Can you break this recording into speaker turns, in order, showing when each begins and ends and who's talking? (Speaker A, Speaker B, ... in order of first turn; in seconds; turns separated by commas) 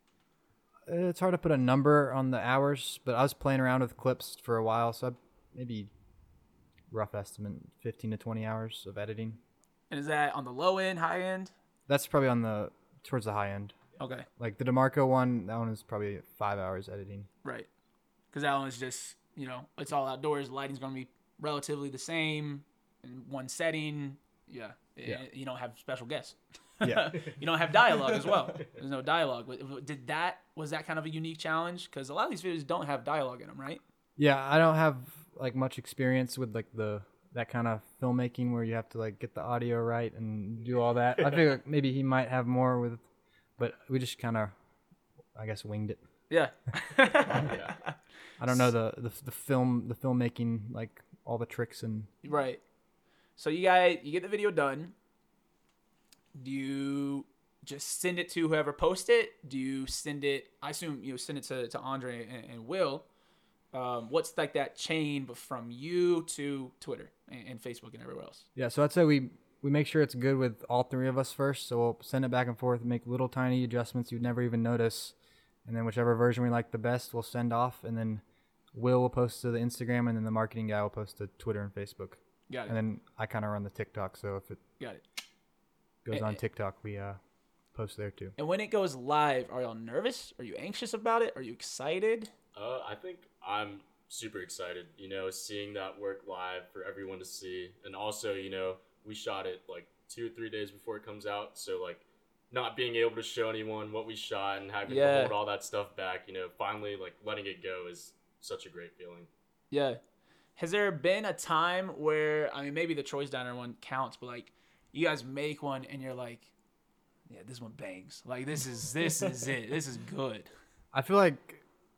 Speaker A: 0.9-5.9, Speaker A: 6.9-9.4, Speaker B: 9.9-11.5, Speaker A: 11.9-13.8, Speaker B: 14.0-14.3, Speaker A: 14.4-17.3, Speaker B: 18.3-33.8, Speaker A: 26.8-27.3, Speaker A: 34.2-43.0, Speaker A: 43.6-44.5, Speaker A: 45.4-46.0, Speaker B: 46.3-48.0, Speaker C: 47.4-47.8, Speaker A: 48.4-52.1, Speaker B: 52.2-52.6, Speaker B: 53.4-54.9, Speaker B: 56.4-63.0, Speaker B: 63.7-68.5, Speaker A: 68.6-75.1, Speaker A: 75.7-78.2, Speaker A: 78.7-84.6, Speaker B: 82.5-82.8, Speaker A: 86.0-87.2, Speaker B: 86.1-86.4, Speaker A: 87.7-88.3, Speaker B: 88.4-92.3, Speaker C: 92.5-109.3, Speaker B: 104.9-105.4, Speaker B: 109.7-110.0, Speaker B: 110.6-116.5, Speaker B: 117.3-120.5, Speaker A: 120.9-121.6